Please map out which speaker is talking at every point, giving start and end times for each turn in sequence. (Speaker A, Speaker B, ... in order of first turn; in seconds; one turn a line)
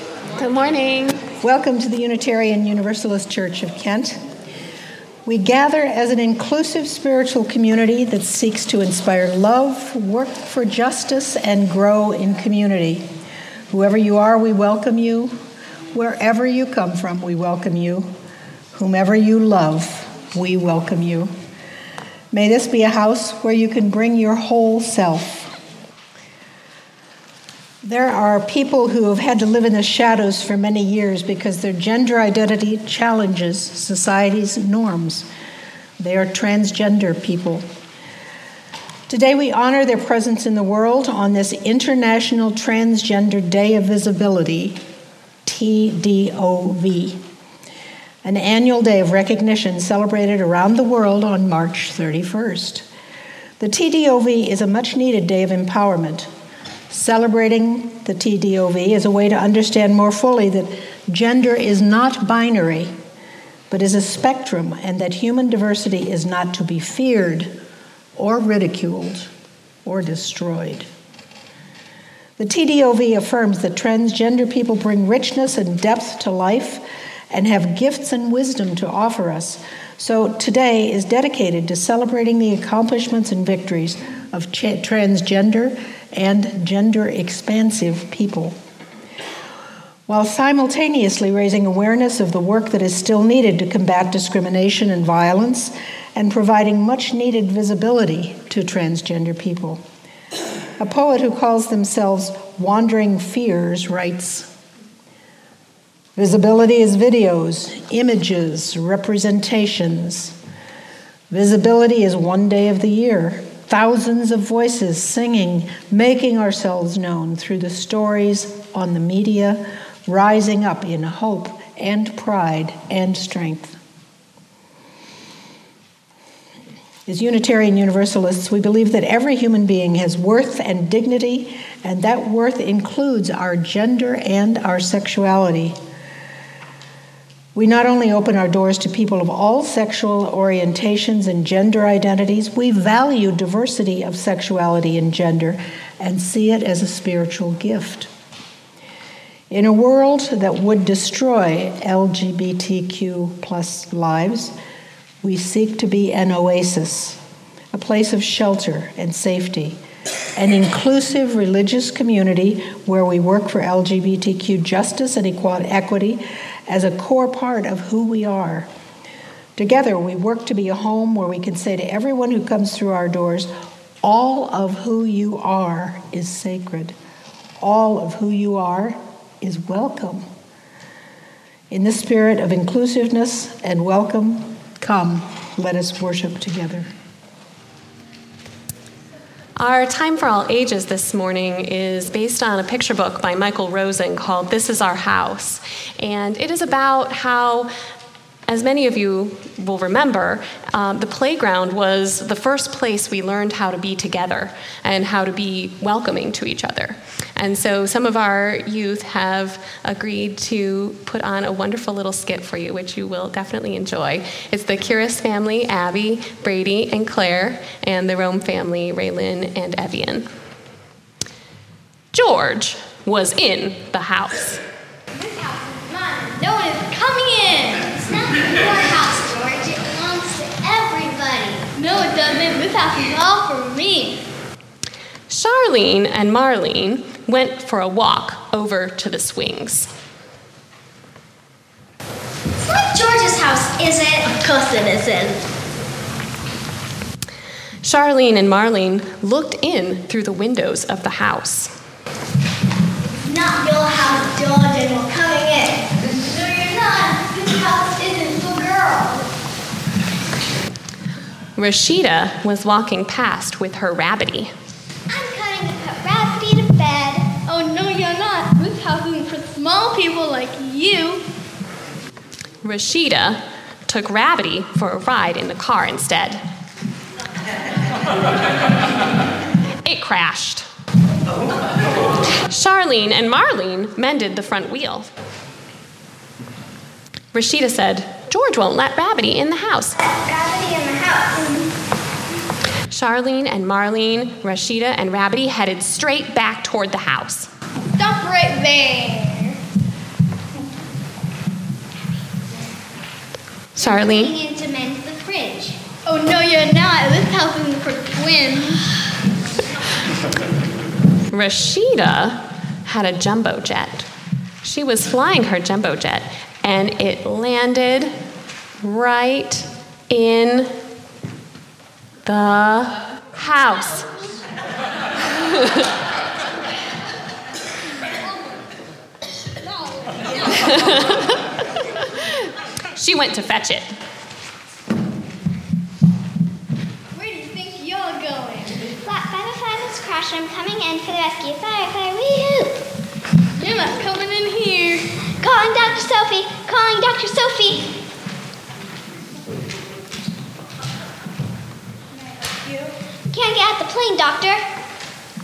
Speaker A: 0.3-1.2
Speaker B: 1.4-4.2
Speaker B: 5.2-13.0
Speaker B: 13.7-15.4
Speaker B: 15.9-18.1
Speaker B: 18.7-21.3
Speaker B: 22.3-25.5
Speaker B: 27.8-35.3
Speaker B: 36.0-37.6
Speaker B: 39.1-44.8
Speaker B: 45.4-47.2
Speaker B: 48.2-52.8
Speaker B: 53.6-56.3
Speaker B: 56.9-62.9
Speaker B: 63.7-67.5
Speaker B: 68.2-69.3
Speaker B: 69.8-70.9
Speaker B: 72.4-88.6
Speaker B: 90.1-99.8
Speaker B: 100.8-104.5
Speaker B: 106.2-110.3
Speaker B: 111.3-123.8
Speaker B: 127.1-135.8
Speaker B: 137.5-148.1
Speaker B: 149.5-154.5
Speaker B: 155.2-157.2
Speaker B: 157.7-159.8
Speaker B: 160.3-168.7
Speaker B: 169.6-173.5
Speaker B: 174.0-176.9
Speaker B: 177.6-180.2
Speaker B: 181.7-186.9
Speaker A: 189.6-197.7
Speaker A: 198.5-220.2
Speaker A: 222.1-224.6
Speaker C: 225.1-228.1
Speaker D: 228.1-231.7
Speaker C: 231.7-234.2
Speaker A: 235.3-239.9
Speaker D: 242.6-245.4
Speaker A: 247.8-251.7
Speaker D: 253.2-259.3
Speaker A: 261.6-264.5
Speaker D: 265.1-267.4
Speaker C: 267.4-271.2
Speaker A: 272.6-276.4
Speaker A: 279.8-280.6
Speaker A: 282.4-285.1
Speaker A: 287.3-290.0
Speaker D: 290.0-291.7
Speaker A: 292.9-297.5
Speaker C: 297.9-299.6
Speaker A: 303.7-304.3
Speaker D: 303.8-305.8
Speaker C: 306.0-308.9
Speaker A: 311.3-314.1
Speaker A: 314.6-318.1
Speaker A: 318.8-320.7
Speaker A: 322.2-324.1
Speaker A: 325.5-325.8
Speaker C: 329.9-330.7
Speaker A: 330.6-331.3
Speaker A: 332.9-333.9
Speaker C: 337.1-338.8
Speaker D: 339.0-342.9
Speaker C: 343.6-345.2
Speaker D: 345.4-348.0
Speaker C: 352.1-352.9
Speaker D: 353.3-354.6